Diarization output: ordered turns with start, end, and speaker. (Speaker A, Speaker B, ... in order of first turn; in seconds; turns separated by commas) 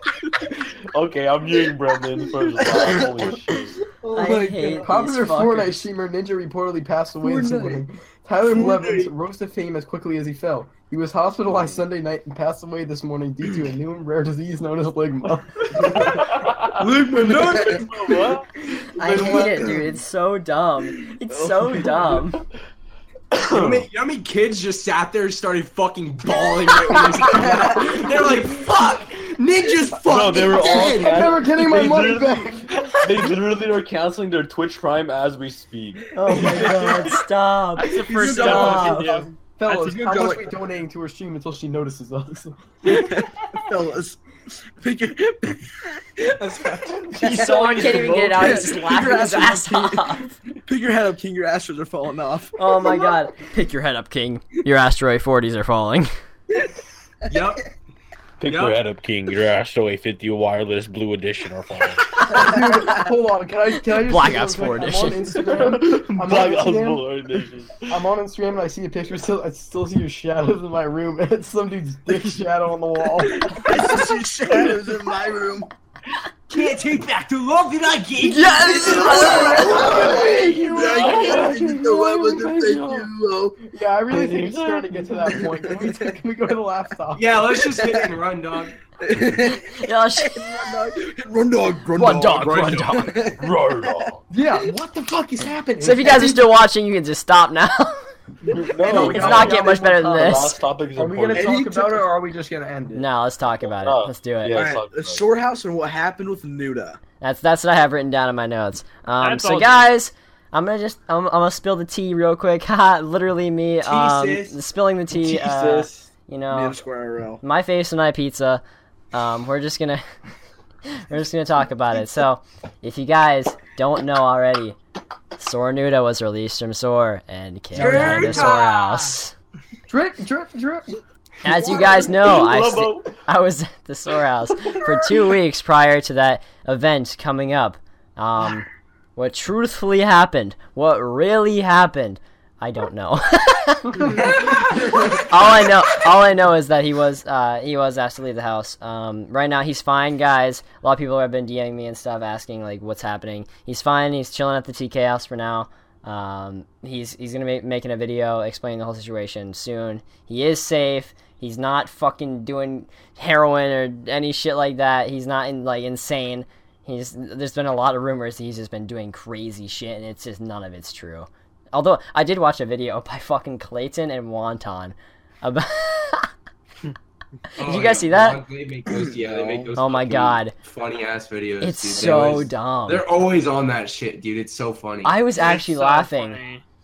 Speaker A: 0.3-3.8, Speaker B: 1.6-4.9, Speaker C: 4.1-5.8, Speaker D: 4.6-16.2, Speaker B: 7.2-7.9, Speaker B: 8.5-9.1, Speaker A: 16.0-19.7, Speaker E: 16.8-17.9, Speaker C: 18.9-22.4, Speaker B: 19.2-19.8, Speaker B: 21.3-22.2, Speaker A: 23.3-23.9, Speaker E: 23.4-31.4, Speaker B: 27.3-27.9, Speaker A: 30.0-37.1, Speaker D: 30.8-33.3, Speaker C: 36.1-39.1, Speaker B: 36.3-37.1, Speaker F: 37.8-39.3, Speaker B: 38.1-40.5, Speaker D: 38.2-43.0, Speaker B: 42.8-44.2, Speaker B: 44.8-53.2, Speaker C: 47.2-50.3, Speaker D: 47.5-48.2, Speaker C: 52.6-56.1, Speaker E: 57.3-57.6, Speaker A: 58.4-62.3, Speaker E: 58.5-58.8, Speaker D: 62.3-67.1, Speaker B: 62.4-63.0, Speaker C: 64.0-65.4, Speaker A: 65.4-67.9, Speaker D: 67.9-74.1, Speaker B: 73.2-75.7, Speaker E: 76.5-80.2, Speaker D: 78.2-81.4, Speaker B: 78.7-83.6, Speaker A: 80.7-83.1, Speaker D: 83.6-87.4, Speaker A: 84.1-85.4, Speaker B: 85.6-86.1, Speaker E: 87.1-88.8, Speaker B: 87.8-88.1, Speaker B: 89.0-94.1, Speaker C: 89.5-90.7, Speaker C: 91.9-93.1, Speaker E: 92.3-93.2, Speaker A: 93.4-94.2, Speaker D: 94.3-96.5, Speaker C: 95.8-98.0, Speaker A: 98.5-101.5, Speaker D: 98.7-103.1, Speaker C: 98.8-100.6, Speaker B: 101.3-102.1, Speaker C: 102.9-104.7, Speaker A: 103.6-105.3, Speaker B: 104.5-107.0, Speaker C: 107.2-116.8, Speaker F: 109.2-109.9, Speaker E: 113.8-114.6, Speaker A: 115.1-116.1, Speaker B: 116.5-117.4, Speaker C: 117.4-118.6, Speaker C: 119.1-120.0, Speaker C: 120.9-124.8, Speaker C: 125.4-129.3, Speaker E: 127.7-129.1, Speaker B: 127.8-128.5, Speaker D: 129.9-131.0, Speaker C: 131.4-176.3, Speaker A: 131.4-133.1, Speaker C: 177.5-178.4, Speaker E: 177.6-185.1, Speaker B: 179.1-179.7, Speaker C: 179.8-180.5, Speaker C: 181.6-183.0, Speaker A: 181.9-182.4, Speaker C: 185.0-186.4, Speaker F: 185.3-186.6